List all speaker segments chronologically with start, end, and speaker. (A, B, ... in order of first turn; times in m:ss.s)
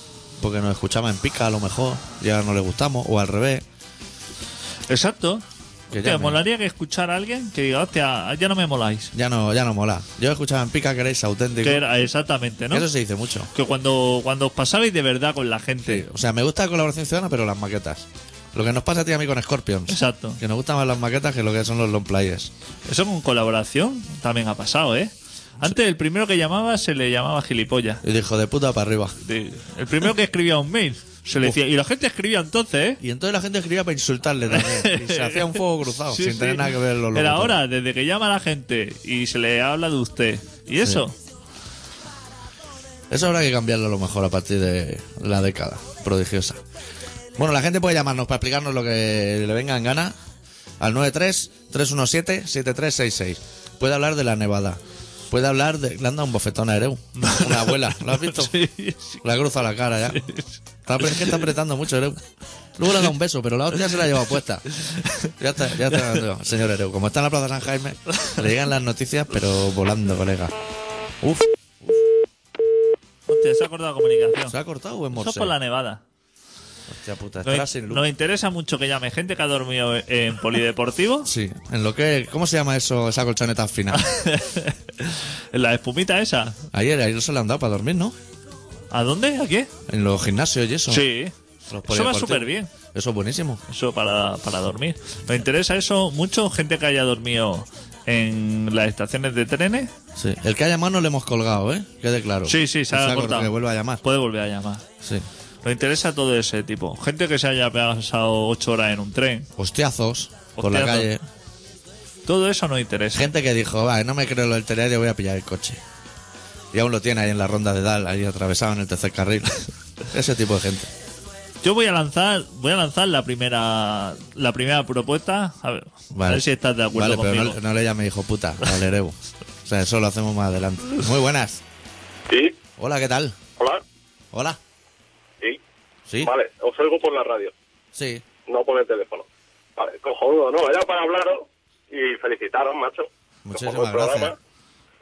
0:00.4-0:03.6 A
0:04.9-0:09.1 B
0:05.9-0:06.4 A
0:09.1-0:11.8 A
0:11.6-0:12.9 B
0:12.7-0:13.5 A
0:13.5-0:16.1 B
0:15.8-0:22.5 A
0:19.9-0:20.4 B
0:22.9-0:28.0 B
0:28.0-0:29.2 A
0:29.2-0:33.0 B
0:33.0-0:37.6 A
0:34.5-0:41.2 B
0:43.1-0:46.6 A
0:47.4-0:50.2 A
0:50.8-0:58.6 A
0:57.2-0:59.2 B
0:59.2-1:00.3 A
1:00.1-1:01.4 B
1:00.9-1:02.2 A
1:02.8-1:04.6 A
1:04.8-1:05.3 B
1:05.4-1:10.6 A
1:05.9-1:06.2 B
1:11.2-1:12.1 A
1:13.3-1:14.6 B
1:14.5-1:15.6 A
1:15.1-1:16.0 B
1:16.9-1:18.0 A
1:17.4-1:21.3 B
1:21.3-1:24.0 A
1:23.9-1:26.6 B
1:26.7-1:28.2 A
1:28.9-1:29.7 B
1:29.9-1:31.0 A
1:30.9-1:32.7 B
1:31.7-1:33.6 A
1:33.7-1:39.9 B
1:40.2-1:44.0 A
1:42.5-1:44.8 B
1:45.6-1:49.5 B
1:49.6-1:51.2 A
1:50.6-1:51.2 B
1:52.3-1:53.3 B
1:53.1-1:55.8 A
1:56.7-2:00.9 A
2:01.6-2:07.6 B
2:06.1-2:11.6 A
2:12.3-2:12.6 C
2:12.8-2:13.4 A
2:14.3-2:14.6 A
2:16.2-2:17.5 C
2:18.0-2:18.2 A
2:18.5-2:19.3 C
2:19.8-2:24.4 C
2:23.4-2:24.4 A